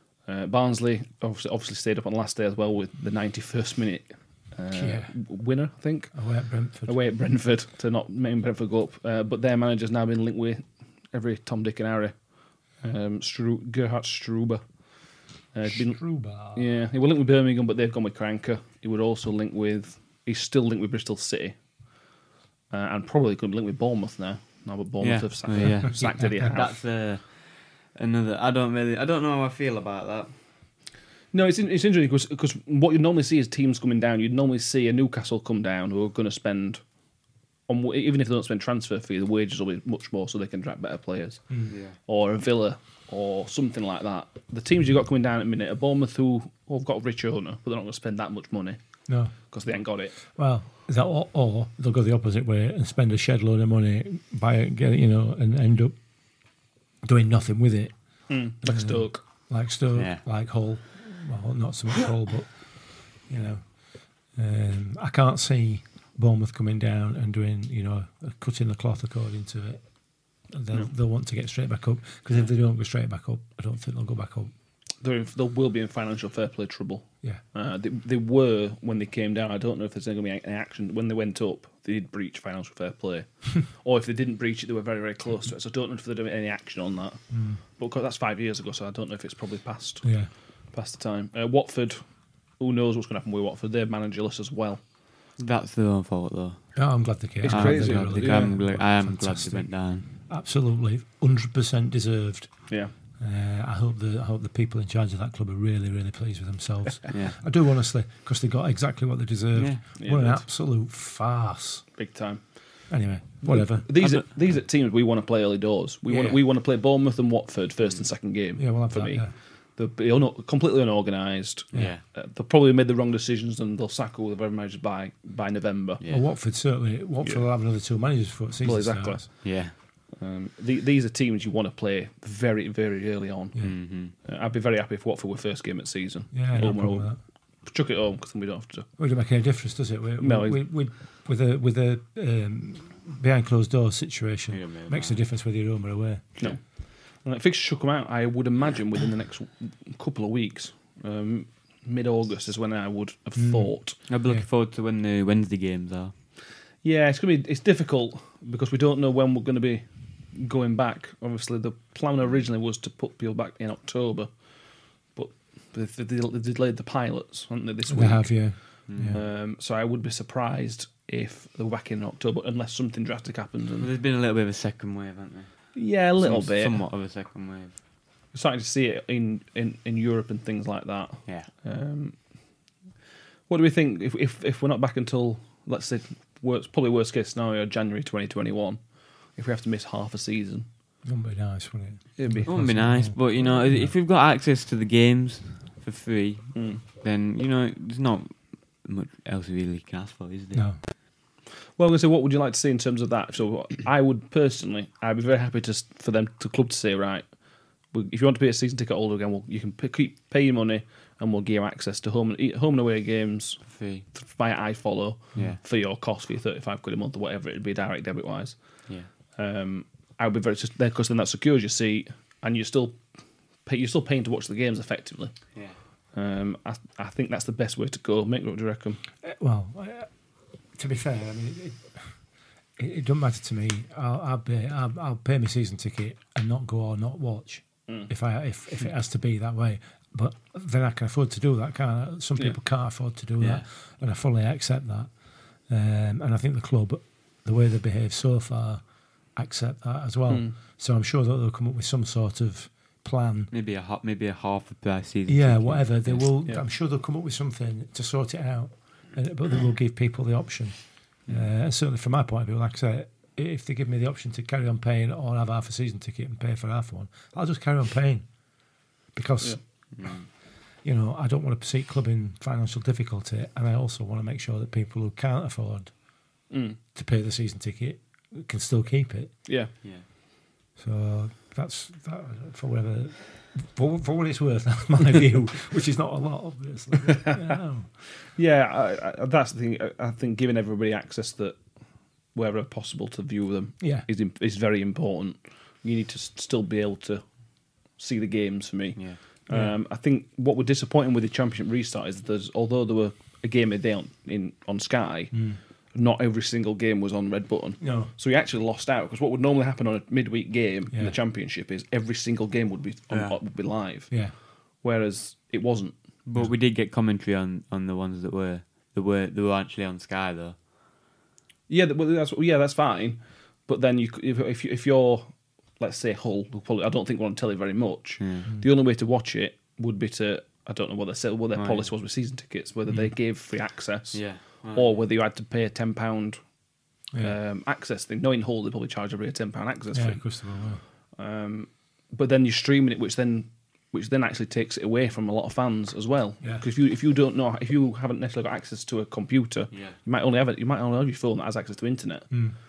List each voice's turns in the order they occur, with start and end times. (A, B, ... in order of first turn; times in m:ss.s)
0:00.2-0:06.2 A
0:04.7-0:05.2 B
0:06.1-0:07.0 B
0:06.9-0:12.2 A
0:12.8-0:14.6 A
0:15.5-0:21.6 A
0:15.7-0:16.7 B
0:22.7-0:26.8 A
0:25.0-0:30.3 C
0:26.2-0:26.5 B
0:31.3-0:36.8 A
0:37.7-0:48.8 A
0:41.7-0:42.0 C
0:49.1-0:49.4 B
0:49.4-0:50.2 A
0:50.2-0:56.0 B
0:57.0-1:09.8 B
0:58.3-0:59.2 A
0:59.9-1:00.2 C
1:10.4-1:14.5 B
1:15.0-1:32.0 A
1:27.3-1:27.6 B
1:30.0-1:30.3 B
1:32.6-1:34.8 A
1:35.4-1:36.8 C
1:36.8-1:51.8 B
1:37.4-1:38.5 A
1:37.5-1:40.1 C
1:47.1-1:47.4 C
1:49.6-1:49.8 C
1:50.0-1:50.4 A
1:52.0-1:52.5 A
1:52.9-1:53.9 B
1:53.4-2:06.0 A
1:56.1-1:56.4 B
1:58.6-1:59.3 B
2:01.7-2:02.0 C
2:06.1-2:09.3 B
2:08.6-2:18.9 A
2:09.4-2:09.7 C
2:13.6-2:14.1 C
2:16.3-2:17.2 B
2:19.0-2:26.4 B
2:20.2-2:20.6 A
2:24.5-2:25.2 C
2:26.4-2:34.0 A
2:33.4-2:33.7 B
2:34.1-2:36.1 C
2:36.8-2:44.3 A
2:45.2-2:53.9 A
2:47.9-2:49.2 B
2:48.9-2:49.2 C
2:53.8-2:57.8 C
2:55.8-2:56.8 A
2:58.3-3:02.2 A
3:03.5-3:08.8 A
3:09.3-3:10.7 A
3:11.0-3:13.9 B
3:12.2-3:12.6 A
3:12.4-3:20.7 C
3:16.6-3:16.8 A
3:20.5-3:20.8 B
3:21.8-3:27.3 A
3:27.9-3:38.6 A
3:33.7-3:34.1 C
3:39.4-3:43.0 A
3:43.6-3:45.4 A
3:46.1-3:49.0 A
3:49.2-3:50.1 B
3:50.8-3:52.1 B
3:52.8-4:05.1 B
4:05.7-4:08.8 B
4:09.3-4:13.5 B
4:10.3-4:10.6 A
4:13.5-4:16.3 C
4:15.3-4:28.2 B
4:29.1-4:29.6 B
4:29.9-4:30.3 C
4:30.8-4:35.9 B
4:36.5-4:36.8 A
4:37.0-4:39.5 B
4:39.5-4:39.7 A
4:40.8-4:47.9 B
4:48.3-4:51.6 A
4:52.3-4:57.3 A
4:53.8-4:54.1 B
4:57.9-5:16.0 A
4:59.5-4:59.8 B
5:05.3-5:05.6 B
5:07.8-5:08.1 B
5:13.1-5:13.4 C
5:16.3-5:20.6 C
5:21.7-5:36.4 A
5:28.2-5:28.5 C
5:31.6-5:31.9 C
5:34.1-5:35.0 C
5:37.1-5:37.4 B
5:37.2-5:40.3 A
5:39.9-5:40.8 B
5:41.2-5:52.4 A
5:52.3-5:52.6 B